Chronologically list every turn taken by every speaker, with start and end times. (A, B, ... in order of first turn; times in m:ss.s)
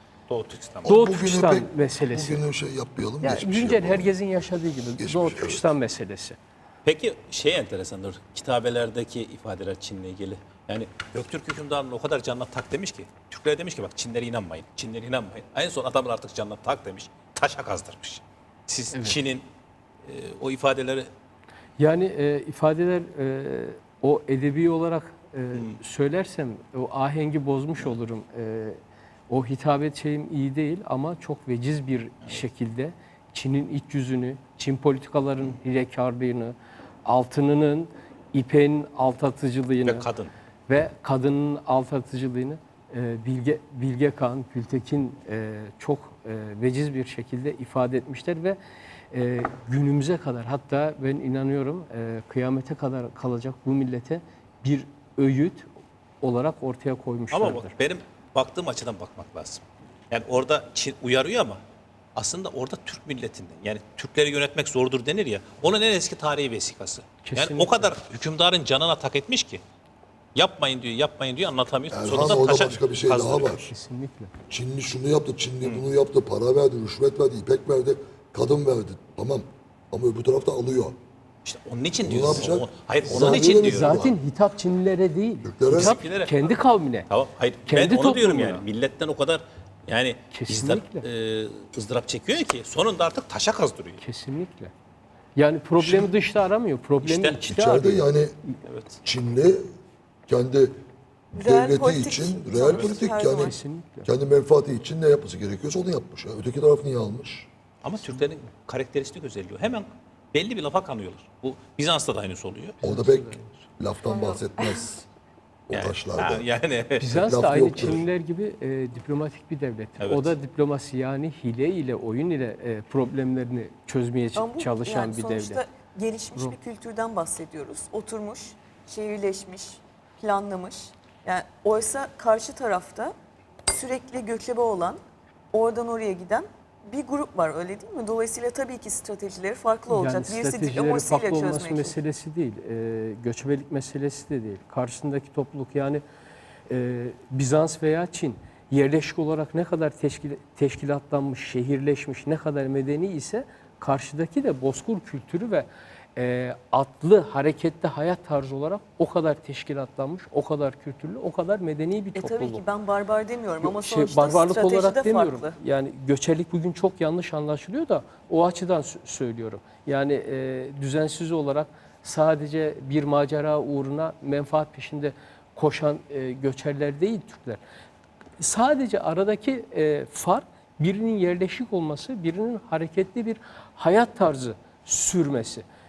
0:00.3-0:01.0 A
0:00.8-0:04.1 B
0:00.9-0:02.4 C
0:03.2-0:06.4 C
0:05.0-0:05.7 B
0:06.8-0:19.5 A
0:18.9-0:19.2 C
0:20.1-0:21.1 A
0:21.8-0:40.1 C
0:39.9-0:40.3 A
0:40.7-0:48.6 C
0:49.1-0:55.7 C
0:56.2-0:57.7 C
0:57.3-1:01.6 A
1:02.2-1:09.6 A
1:07.2-1:07.9 C
1:10.4-1:13.6 A
1:11.9-1:13.7 B
1:12.1-1:12.5 C
1:13.5-1:14.3 C
1:14.5-1:20.9 B
1:21.4-1:24.1 A
1:22.0-1:24.2 B
1:23.1-1:27.1 C
1:25.4-1:26.0 B
1:25.7-1:26.5 A
1:27.1-1:34.0 A
1:27.7-1:28.6 C
1:30.3-1:31.1 C
1:34.0-1:34.7 C
1:35.4-1:38.0 C
1:35.8-1:36.1 B
1:37.0-1:37.5 A
1:37.4-1:38.4 B
1:38.6-1:39.0 A
1:39.0-1:39.7 B
1:40.3-1:40.7 B
1:41.3-1:47.5 B
1:41.4-1:43.5 D
1:43.3-1:44.1 C
1:47.8-1:52.8 A
1:52.8-1:53.6 C
1:52.8-1:55.0 B
1:54.1-1:54.8 D
1:55.7-1:56.5 B
1:55.7-1:57.0 A
1:57.0-2:05.6 C
1:57.1-1:58.0 B
2:00.0-2:00.3 A
2:04.4-2:13.1 D
2:13.7-2:15.0 D
2:15.5-2:22.0 D
2:19.9-2:26.0 C
2:26.7-2:42.6 C
2:42.2-2:45.6 D
2:43.6-2:57.6 C
2:58.4-3:05.6 C